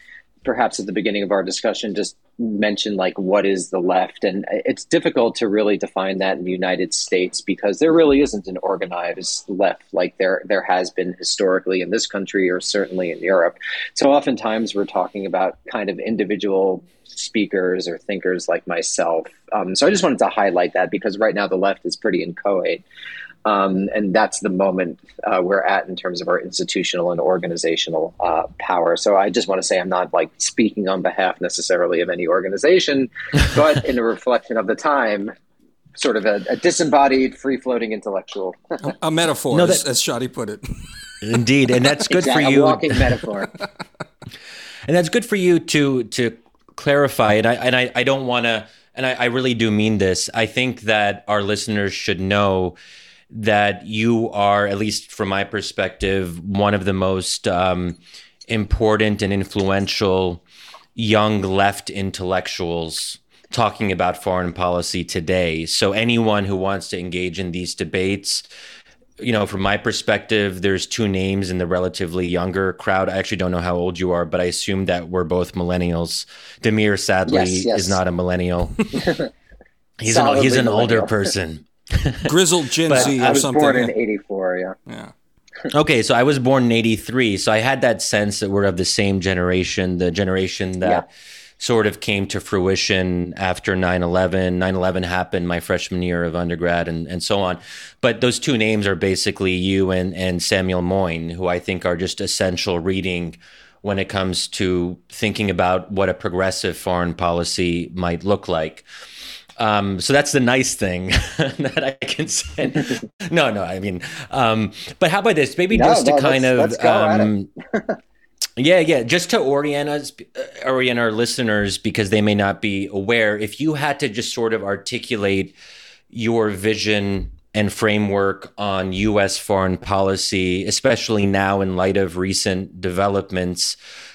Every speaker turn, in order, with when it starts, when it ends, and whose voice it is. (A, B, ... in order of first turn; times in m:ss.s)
0:00.4-0:22.8 A
0:23.4-0:35.3 A
0:36.0-0:38.8 A
0:38.8-0:40.7 B
0:39.5-0:39.8 C
0:41.2-0:43.0 C
0:42.1-0:43.5 A
0:44.9-0:52.8 C
0:53.3-0:58.0 C
0:58.5-1:00.4 C
1:01.0-1:08.4 C
1:09.2-1:18.9 C
1:17.3-1:18.0 A
1:19.0-1:19.3 A
1:20.0-1:22.3 C
1:20.1-1:21.1 A
1:22.3-1:23.9 B
1:22.9-1:23.4 C
1:22.9-1:24.8 A
1:24.9-1:25.1 B
1:25.7-1:31.0 C
1:31.6-1:48.8 C
1:49.6-1:57.5 C
1:55.7-1:58.0 A
1:58.6-2:05.6 C
2:06.1-2:13.8 C